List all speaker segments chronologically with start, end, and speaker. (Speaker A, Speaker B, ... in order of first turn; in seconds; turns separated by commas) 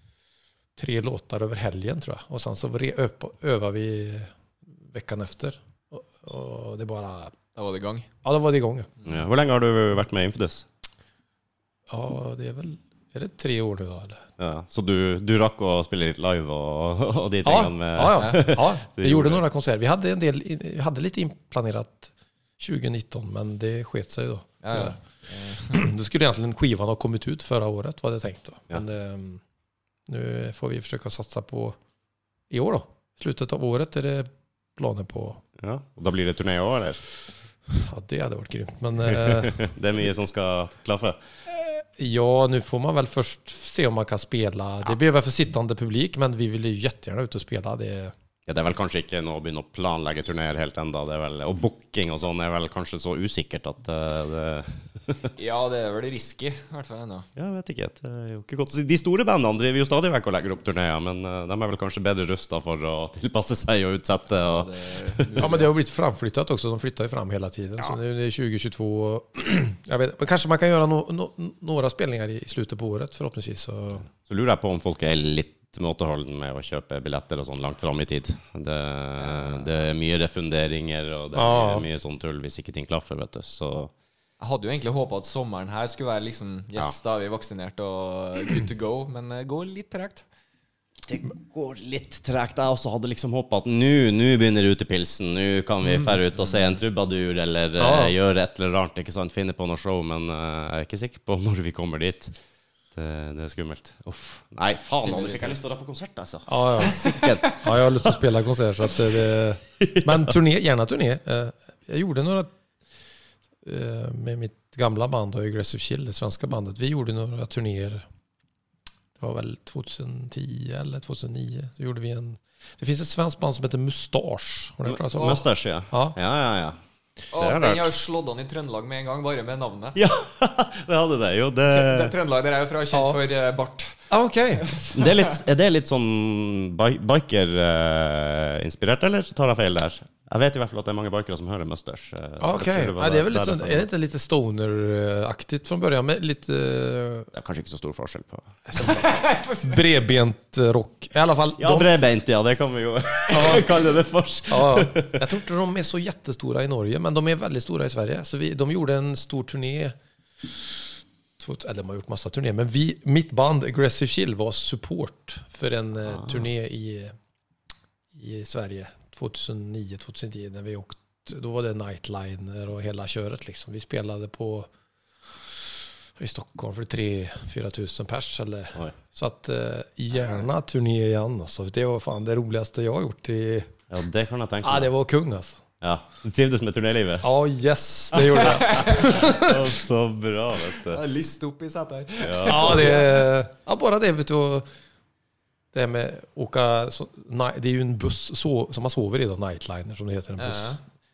Speaker A: 0.8-7.4, Speaker B: 7.5-8.1, Speaker A: 8.2-8.9, Speaker C: 9.0-10.7, Speaker A: 11.9-14.2, Speaker C: 14.4-19.4, Speaker A: 17.4-25.0, Speaker B: 24.6-25.8, Speaker A: 25.6-29.4, Speaker A: 30.1-31.8, Speaker A: 32.5-35.4, Speaker C: 35.6-37.0, Speaker A: 37.7-39.7, Speaker C: 39.1-41.2, Speaker A: 41.5-48.1, Speaker C: 48.5-55.3, Speaker B: 55.4-57.3, Speaker C: 57.4-65.5, Speaker B: 64.4-65.7, Speaker A: 65.4-74.1, Speaker C: 74.1-83.9, Speaker B: 79.2-79.7, Speaker A: 81.3-81.9, Speaker B: 84.4-90.3, Speaker C: 91.1-102.3, Speaker A: 95.8-96.2, Speaker A: 97.8-98.2, Speaker C: 103.0-108.2, Speaker B: 105.0-105.6, Speaker A: 106.5-112.5, Speaker C: 109.8-110.3, Speaker A: 113.6-118.1, Speaker A: 119.2-126.2, Speaker C: 124.9-126.8, Speaker B: 125.2-125.4, Speaker B: 127.3-130.0, Speaker C: 127.4-127.9, Speaker C: 130.0-132.1, Speaker B: 131.7-134.0, Speaker A: 132.9-133.2, Speaker A: 134.1-134.7, Speaker B: 134.6-135.4, Speaker C: 134.9-143.9, Speaker A: 142.4-147.3, Speaker C: 147.3-148.6, Speaker A: 148.7-149.1, Speaker B: 148.8-149.8, Speaker A: 149.6-151.9, Speaker C: 151.6-155.2, Speaker A: 153.3-153.8, Speaker A: 154.5-160.8, Speaker A: 161.4-167.2, Speaker A: 168.1-174.7, Speaker A: 176.2-183.7, Speaker C: 183.9-184.9, Speaker A: 184.6-185.6, Speaker C: 185.8-187.3, Speaker A: 187.2-189.8, Speaker C: 188.1-191.0, Speaker B: 188.4-189.1, Speaker B: 190.8-193.2, Speaker C: 192.2-192.9, Speaker A: 192.5-194.7, Speaker A: 195.7-200.8, Speaker B: 200.4-200.8